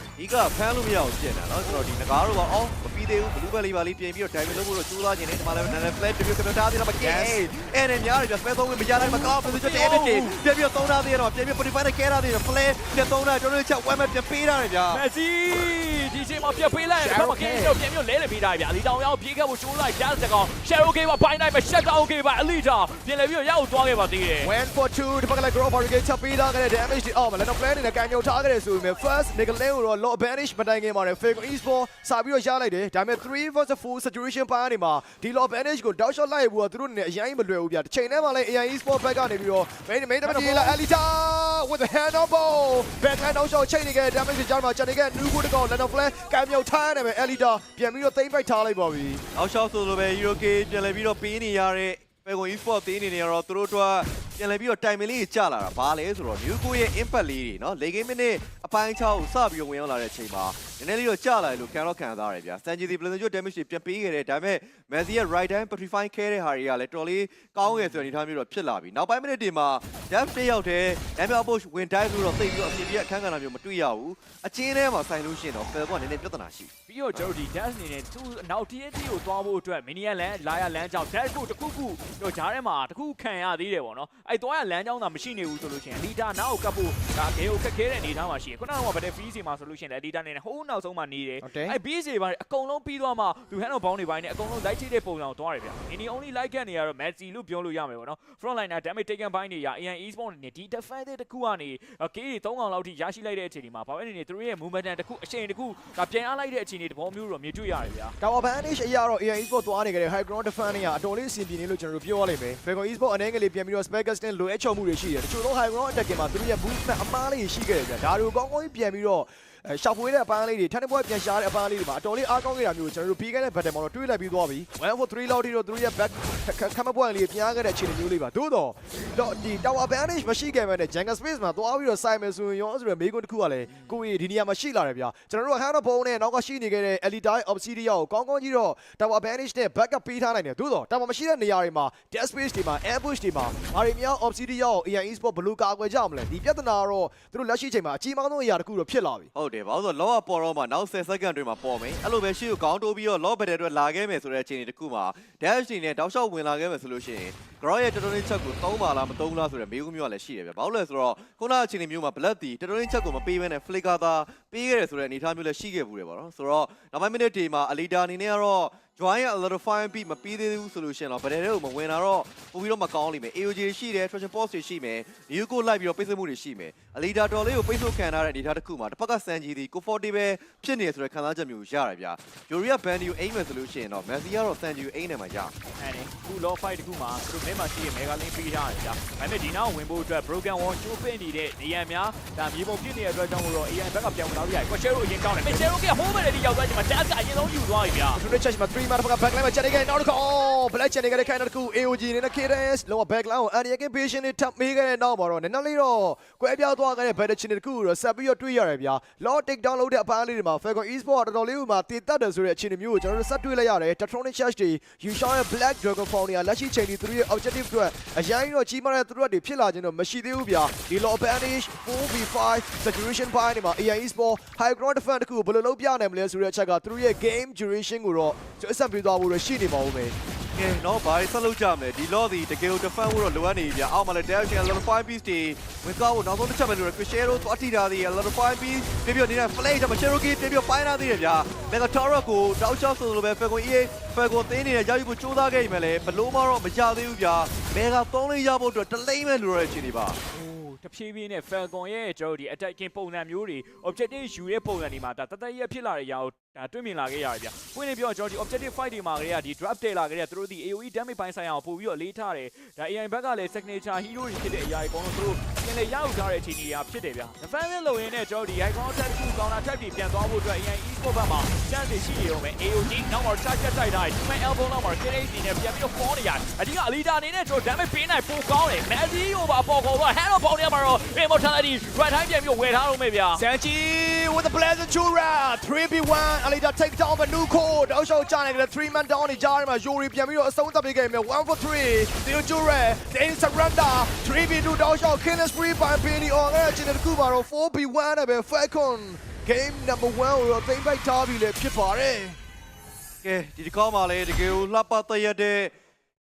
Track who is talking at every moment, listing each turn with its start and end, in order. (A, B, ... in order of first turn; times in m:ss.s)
0:00.2-0:15.0 A
0:07.0-0:07.5 B
0:08.9-0:10.4 C
0:14.9-0:24.5 C
0:17.0-0:17.8 B
0:24.4-0:49.2 B
0:40.2-0:40.8 C
0:49.3-1:16.7 A
1:07.6-1:08.1 C
1:16.9-1:48.1 C
1:31.4-1:31.8 B
1:48.2-2:29.3 B
2:13.7-2:14.0 C
2:29.3-3:05.5 A
3:05.8-3:18.2 C
3:18.1-3:50.2 B
3:50.6-4:10.2 A
4:10.3-4:43.4 C
4:43.4-5:02.4 B
5:03.2-5:05.7 A